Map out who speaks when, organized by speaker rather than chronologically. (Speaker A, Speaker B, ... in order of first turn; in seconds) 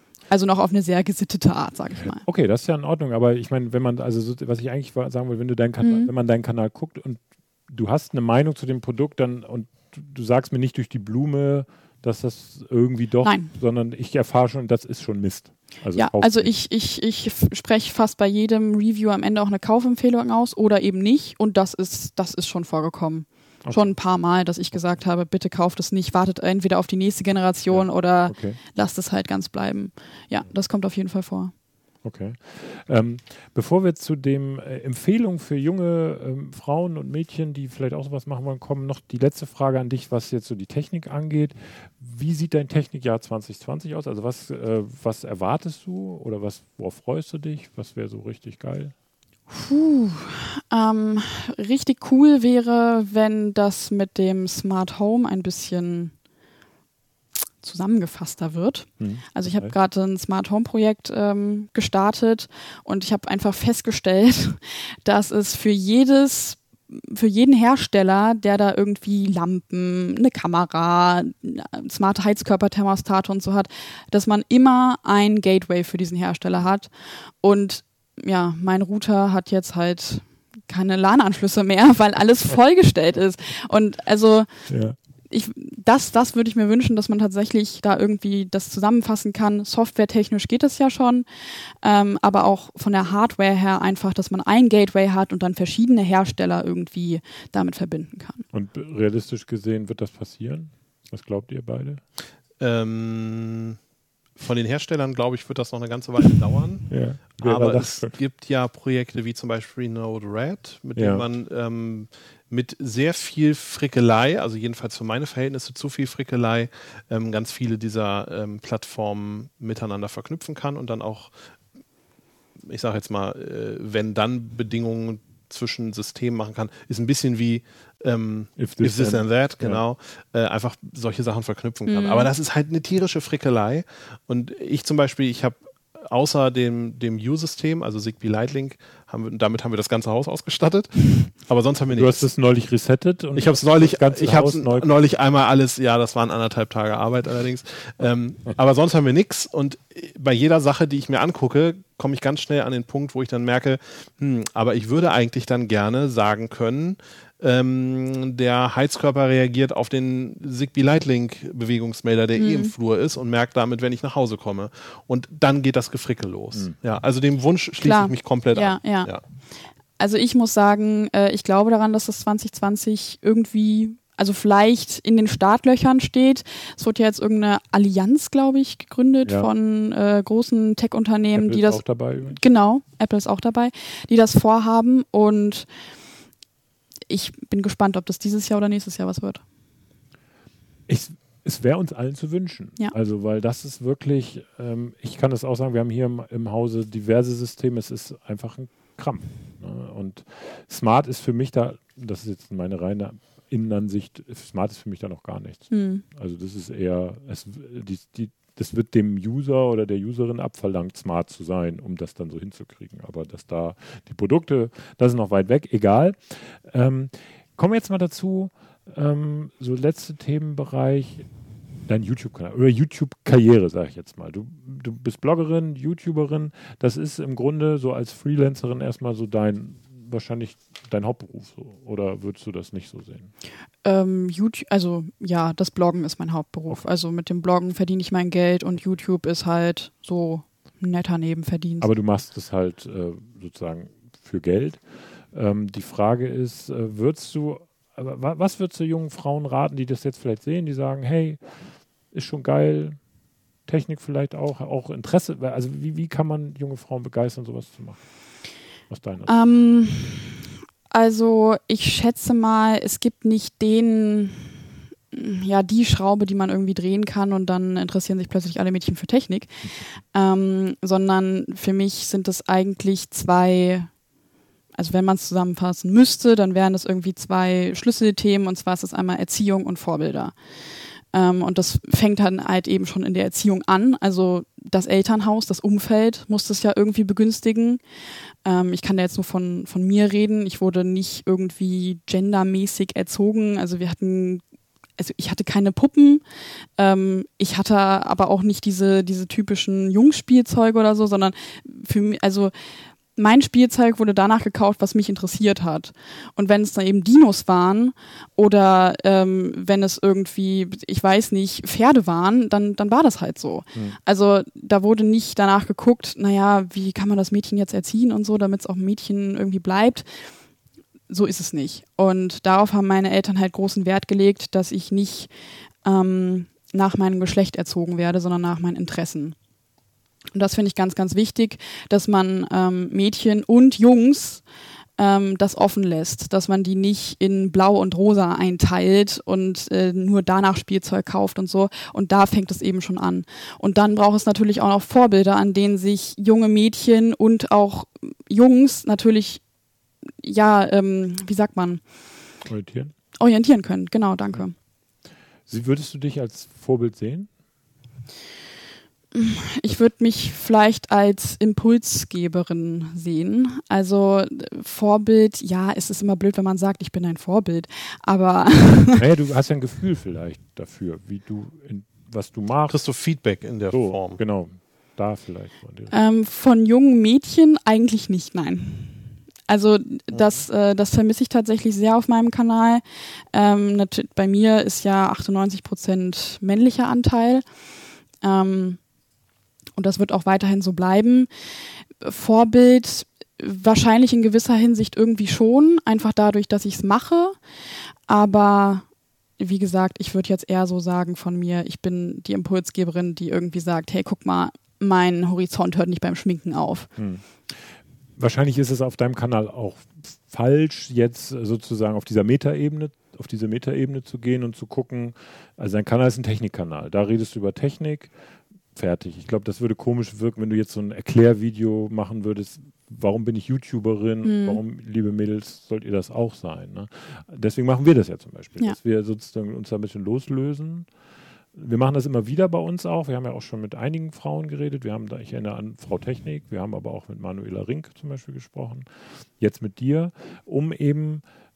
Speaker A: 0.3-2.2, 5.8-6.1, 13.2-13.5, 15.9-31.5, 49.5-56.1, 57.6-76.9, 77.4-84.7, 85.3-91.3, 91.8-98.5, 131.9-132.3, 162.4-162.7, 167.8-169.1, 170.0-185.7, 187.1-189.4, 205.7-206.0, 233.8-241.9, 259.3-264.6, 265.1-269.6, 270.1-273.9, 274.8-280.3, 281.1-287.8, 288.4-294.4, 295.0-296.2, 296.8-302.5, 303.1-320.1, 321.1-325.3, 325.8-329.4, 330.3-334.4, 335.0-349.4, 350.2-351.8, 353.2-354.6, 359.1-369.0, 375.9-382.8, 383.3-387.4, 388.2-388.8, 389.8-391.3, 392.0-397.4, 398.1-398.9, 399.4-406.9, 424.2-424.6
Speaker B: 2.0-16.5, 23.6-24.0, 27.7-28.6, 32.0-48.9, 59.0-59.7, 84.7-85.0, 98.5-102.0, 106.9-108.1, 111.0-111.2, 128.6-129.8, 141.9-144.9, 179.2-179.5, 181.3-182.4, 190.9-221.3, 221.9-233.3, 241.8-251.5, 252.1-253.0, 253.7-258.1, 258.9-259.3, 352.4-352.9, 355.5-357.3, 369.0-372.8, 373.7-375.9, 407.0-418.1, 418.7-430.9, 431.5-441.2
Speaker C: 102.6-103.8, 104.4-121.3, 122.6-142.2, 143.4-169.2, 372.7-374.2